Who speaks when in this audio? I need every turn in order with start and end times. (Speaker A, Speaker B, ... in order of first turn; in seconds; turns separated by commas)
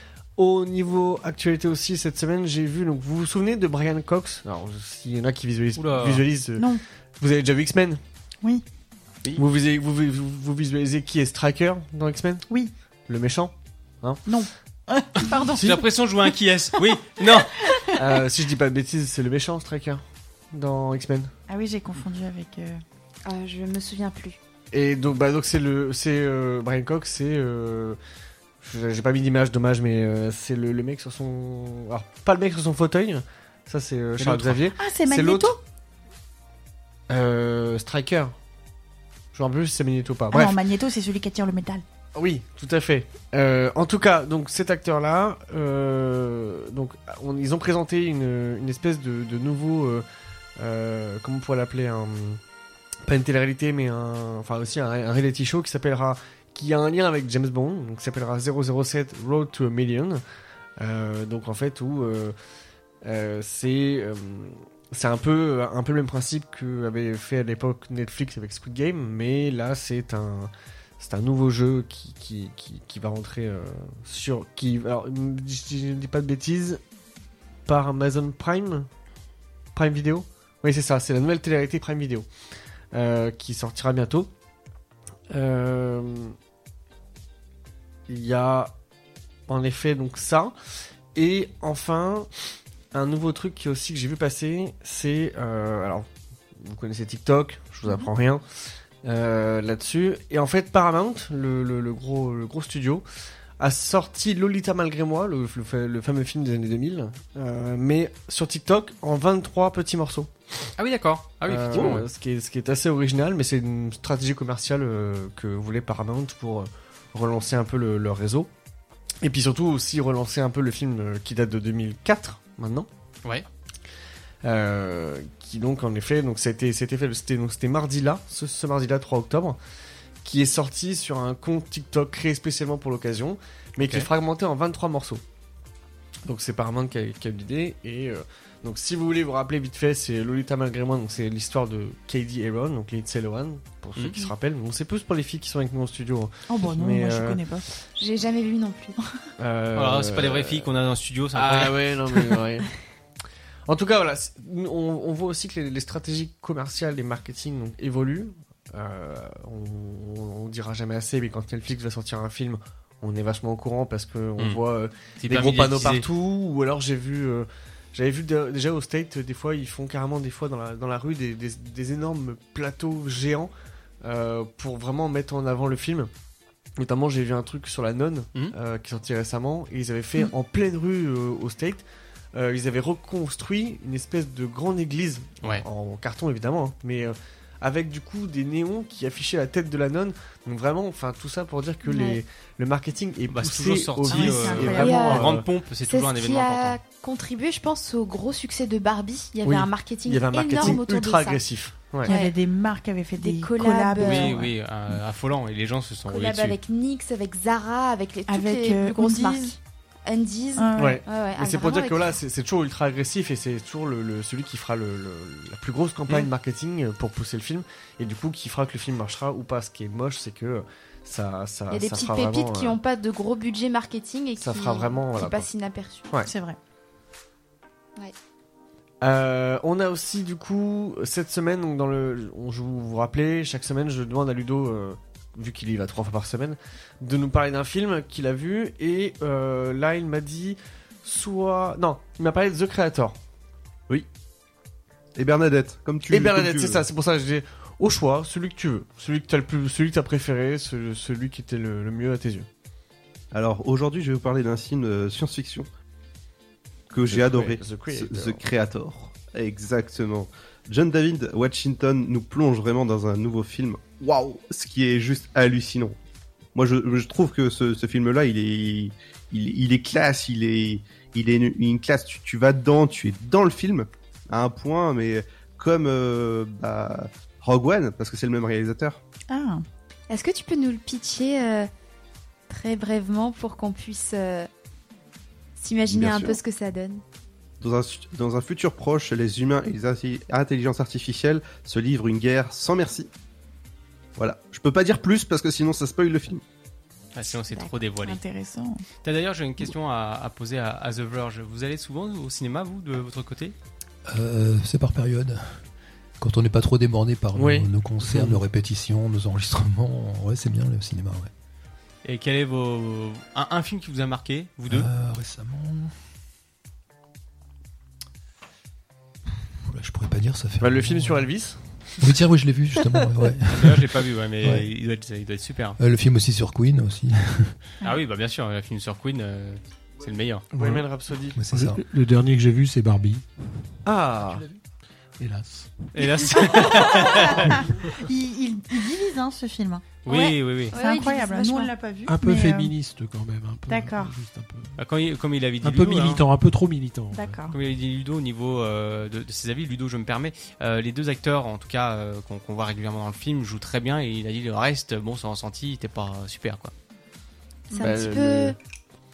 Speaker A: 0.4-8.0, Speaker B: 5.8-6.2, Speaker C: 6.6-6.8, Speaker A: 9.4-12.4, Speaker A: 13.1-14.2, Speaker C: 14.3-15.8, Speaker B: 15.6-17.6, Speaker C: 17.6-18.0, Speaker A: 18.0-21.3, Speaker C: 21.5-22.8, Speaker D: 23.2-24.4, Speaker A: 24.7-28.0, Speaker A: 28.6-35.6, Speaker B: 34.2-34.6, Speaker C: 34.8-35.6, Speaker A: 37.1-38.3, Speaker A: 39.3-40.6, Speaker C: 40.3-41.8, Speaker A: 42.1-50.0, Speaker A: 50.6-52.4, Speaker A: 53.1-60.2, Speaker A: 60.8-62.4, Speaker A: 63.0-76.8, Speaker A: 77.7-78.9, Speaker A: 79.8-82.3, Speaker A: 82.9-84.3, Speaker A: 85.3-86.3, Speaker A: 88.1-88.7, Speaker A: 89.5-90.5, Speaker A: 91.2-92.3, Speaker A: 92.9-98.4, Speaker A: 99.0-103.0, Speaker A: 103.6-110.3, Speaker B: 110.8-112.0, Speaker A: 111.5-118.5, Speaker E: 111.8-112.0, Speaker A: 119.2-122.9, Speaker A: 124.4-129.6, Speaker A: 130.2-135.2, Speaker B: 133.8-134.1, Speaker A: 136.3-147.4, Speaker B: 144.0-144.2, Speaker C: 146.5-147.7, Speaker D: 148.0-149.0, Speaker A: 149.4-150.7, Speaker B: 149.8-152.4, Speaker A: 151.3-152.7, Speaker A: 153.7-173.5, Speaker B: 165.2-166.1, Speaker A: 174.0-176.1, Speaker A: 176.8-181.8, Speaker A: 182.3-195.4, Speaker D: 191.8-192.2, Speaker B: 193.3-196.8, Speaker C: 194.1-195.0, Speaker D: 194.8-201.4, Speaker A: 199.4-202.1, Speaker D: 202.1-202.4, Speaker C: 202.1-204.5, Speaker D: 203.2-204.5, Speaker B: 204.0-206.6, Speaker D: 206.1-212.2, Speaker C: 208.3-209.5, Speaker C: 210.6-211.0, Speaker A: 210.8-222.8, Speaker D: 221.7-226.1, Speaker A: 224.4-225.5, Speaker C: 226.3-226.6, Speaker A: 229.0-243.2, Speaker E: 245.2-246.8, Speaker A: 246.1-252.5, Speaker E: 253.3-255.7, Speaker E: 256.9-266.0, Speaker A: 257.1-258.4, Speaker E: 266.6-279.0, Speaker C: 279.3-279.6, Speaker D: 280.1-281.7, Speaker D: 282.5-284.5, Speaker D: 285.6-287.0, Speaker E: 285.9-286.4, Speaker E: 287.6-293.1, Speaker E: 294.2-296.4, Speaker B: 297.1-298.2, Speaker C: 298.0-298.8, Speaker B: 299.0-303.6, Speaker F: 304.1-305.5, Speaker F: 306.2-311.3, Speaker A: 307.4-308.4, Speaker B: 312.1-314.9, Speaker F: 314.7-315.9, Speaker F: 319.6-321.3, Speaker A: 320.6-322.0, Speaker F: 322.0-324.7, Speaker B: 323.5-325.8, Speaker F: 325.8-327.6, Speaker B: 327.8-330.5, Speaker G: 330.5-330.9, Speaker A: 330.6-331.4, Speaker F: 331.4-331.8, Speaker G: 331.4-333.2, Speaker A: 333.9-334.4, Speaker F: 334.2-334.6, Speaker G: 335.2-336.2, Speaker B: 335.9-337.5, Speaker C: 336.6-342.7, Speaker B: 340.1-340.8, Speaker D: 340.7-341.7, Speaker G: 342.1-344.8, Speaker C: 343.7-344.1, Speaker B: 344.8-346.2, Speaker G: 345.6-347.4, Speaker C: 347.1-347.5, Speaker B: 347.5-356.7, Speaker C: 357.7-358.1, Speaker D: 357.8-358.6, Speaker A: 357.8-358.6